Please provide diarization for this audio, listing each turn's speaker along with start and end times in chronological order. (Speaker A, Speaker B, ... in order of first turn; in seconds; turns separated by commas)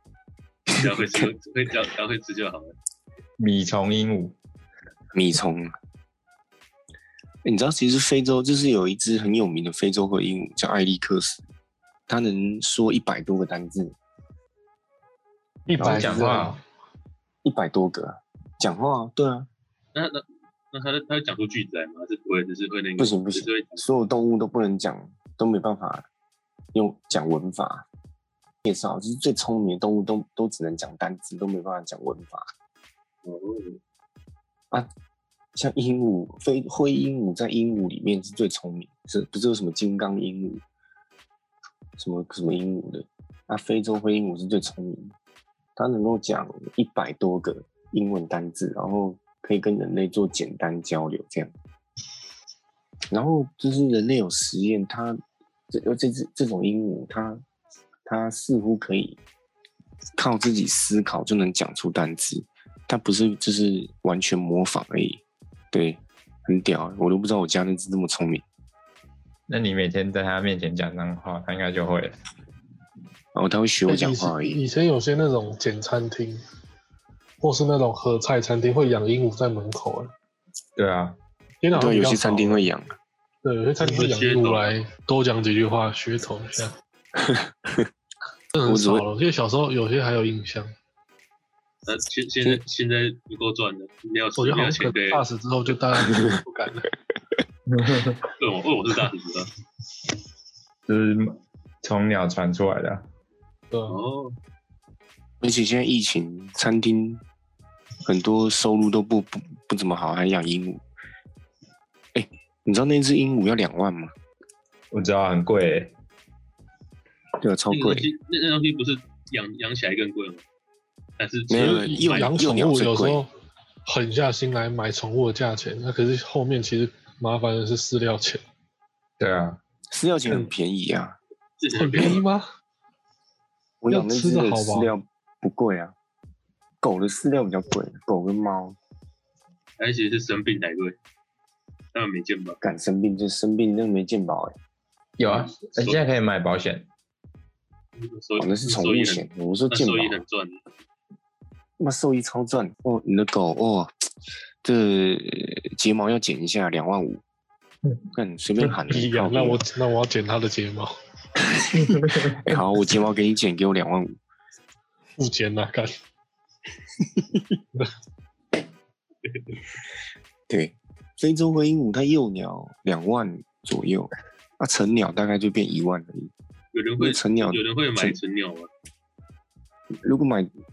Speaker A: 0.7-1.3, Speaker B: 0.8-2.7, Speaker C: 3.4-4.3, Speaker A: 5.1-5.7, Speaker A: 7.4-11.4, Speaker A: 12.1-13.9, Speaker D: 15.7-16.5, Speaker A: 15.8-16.5, Speaker C: 15.8-16.6, Speaker A: 17.4-19.5, Speaker B: 19.9-23.8, Speaker A: 23.0-26.1, Speaker A: 26.7-27.9, Speaker A: 28.6-32.5, Speaker B: 33.2-33.8, Speaker A: 35.5-40.6, Speaker A: 42.0-45.1, Speaker A: 45.8-51.5, Speaker A: 53.1-55.2, Speaker A: 55.7-57.4, Speaker A: 58.0-59.2, Speaker A: 60.2-68.4, Speaker C: 69.5-72.1, Speaker A: 73.3-74.6, Speaker D: 73.8-76.4, Speaker D: 77.4-80.1, Speaker C: 80.8-81.2, Speaker D: 81.6-82.7, Speaker A: 81.7-83.0, Speaker D: 83.4-86.7, Speaker B: 83.8-84.7, Speaker A: 87.2-87.9, Speaker D: 88.5-90.7, Speaker A: 88.7-89.0, Speaker B: 91.8-95.2, Speaker D: 94.4-96.9, Speaker A: 96.0-96.4, Speaker C: 97.7-98.2, Speaker B: 98.4-99.5, Speaker C: 100.9-103.0, Speaker D: 103.7-104.0, Speaker B: 103.9-104.3, Speaker A: 105.4-107.2, Speaker A: 108.0-110.8, Speaker A: 112.1-114.1, Speaker C: 114.9-115.9, Speaker A: 117.4-118.1, Speaker B: 117.7-120.4, Speaker B: 121.2-122.4, Speaker A: 121.5-123.2, Speaker D: 121.8-123.3, Speaker D: 123.8-128.4, Speaker C: 129.2-129.6, Speaker A: 129.9-131.2, Speaker B: 131.6-132.2, Speaker D: 131.7-132.4, Speaker A: 133.8-135.9, Speaker D: 133.9-134.9, Speaker A: 136.8-138.8, Speaker B: 139.8-141.0, Speaker B: 141.9-142.6, Speaker A: 142.6-144.6, Speaker C: 145.2-146.9, Speaker B: 145.2-146.0, Speaker B: 148.0-150.6, Speaker A: 148.4-150.2, Speaker A: 151.8-153.9, Speaker A: 154.6-157.2, Speaker A: 158.1-159.6, Speaker D: 158.9-160.9, Speaker A: 161.6-164.2, Speaker C: 161.7-162.5, Speaker D: 165.2-165.9, Speaker B: 169.2-169.5, Speaker A: 170.5-176.3, Speaker B: 176.7-178.7, Speaker A: 177.0-178.2, Speaker A: 180.0-180.5